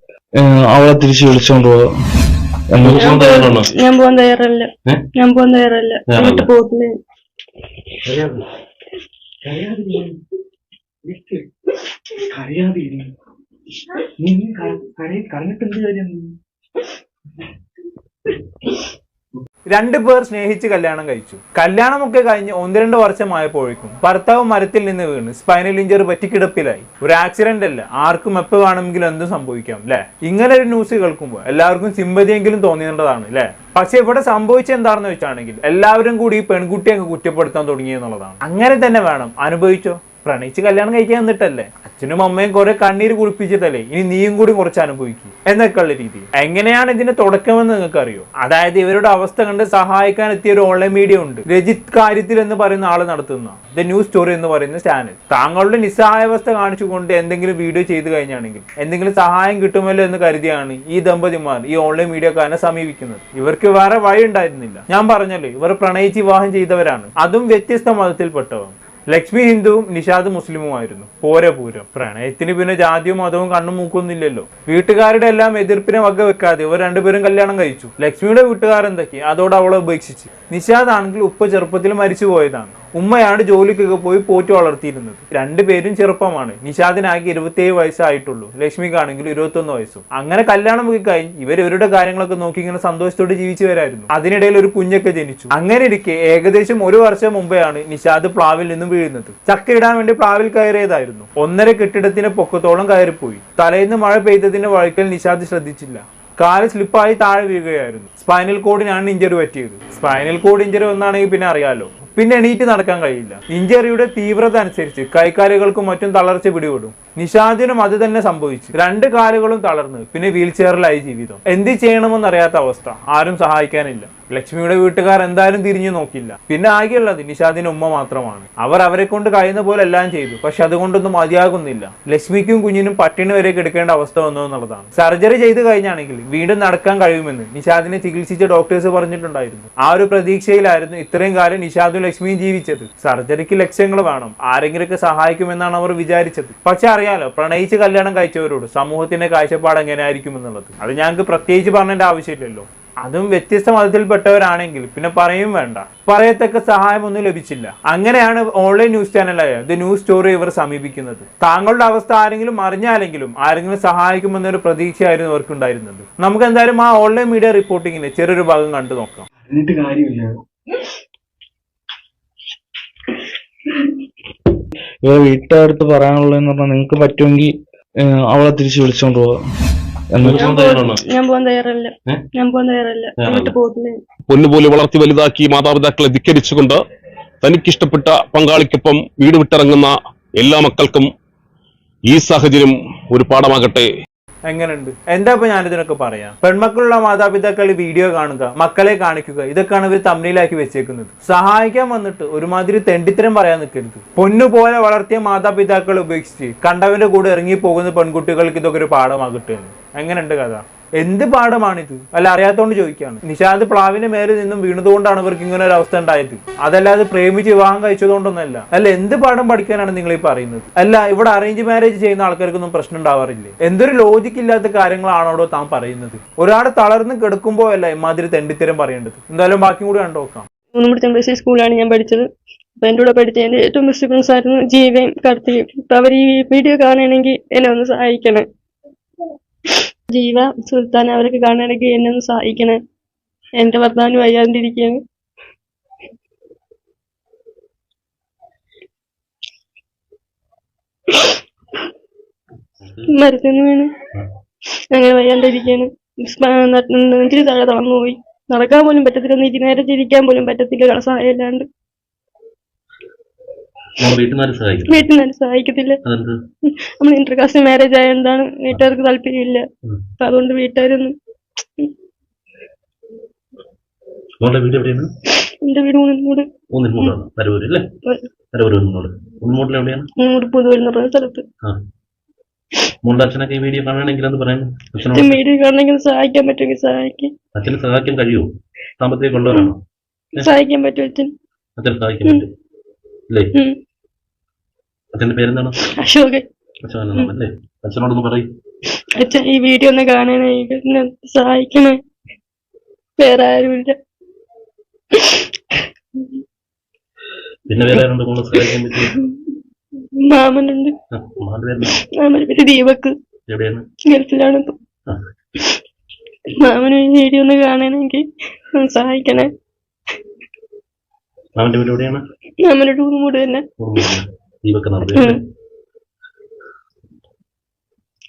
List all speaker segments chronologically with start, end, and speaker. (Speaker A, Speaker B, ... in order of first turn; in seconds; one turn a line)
Speaker A: 0.4-1.8
Speaker A: 2.7-3.2
Speaker B: 2.8-3.7
Speaker C: 2.9-6.9
Speaker B: 6.1-6.5
Speaker A: 8.1-8.4
Speaker A: 9.4-10.1
Speaker A: 11.1-11.4
Speaker A: 12.3-13.1
Speaker A: 14.2-16.3
Speaker D: 19.7-169.3
Speaker A: 169.4-170.3
Speaker A: 175.0-177.5
Speaker A: 178.1-179.3
Speaker A: 180.1-180.5
Speaker B: 180.2-181.0
Speaker C: 180.3-184.0
Speaker B: 183.2-183.6
Speaker E: 184.3-186.8
Speaker E: 187.4-191.1
Speaker E: 192.1-193.9
Speaker D: 194.5-230.5
Speaker C: 230.7-232.2
Speaker C: 232.8-238.4
Speaker C: 239.7-242.8
Speaker C: 243.6-245.0
Speaker C: 251.1-251.4
Speaker B: 252.8-253.1
Speaker C: 253.1-253.9
Speaker C: 254.9-261.7
Speaker B: 264.0-265.1
Speaker C: 264.9-266.0
Speaker B: 266.1-266.3
Speaker C: 266.7-269.6
Speaker C: 270.2-271.1
Speaker B: 274.4-275.1
Speaker C: 275.6-276.5
Speaker B: 276.7-277.9
Speaker B: 278.5-280.1
Speaker C: 280.2-281.4
Speaker B: 283.0-285.4
Speaker C: 285.1-287.3
Speaker B: 287.6-288.5
Speaker B: 289.0-289.8
Speaker C: 290.4-291.3
Speaker B: 291.8-292.5
Speaker B: 293.3-293.6
Speaker B: 295.1-295.9
Speaker C: 295.8-296.4
Speaker B: 296.8-298.5
Speaker C: 299.2-302.0
Speaker C: 303.2-304.0
Speaker C: 305.1-306.4
Speaker B: 307.7-309.1
Speaker C: 309.1-309.3
Speaker C: 310.2-310.9
Speaker B: 311.1-312.0
Speaker C: 312.0-313.1
Speaker B: 313.5-313.9
Speaker C: 314.1-314.8
Speaker C: 316.5-319.5
Speaker B: 321.6-322.2
Speaker C: 322.6-324.1
Speaker B: 323.8-325.4
Speaker C: 325.1-325.4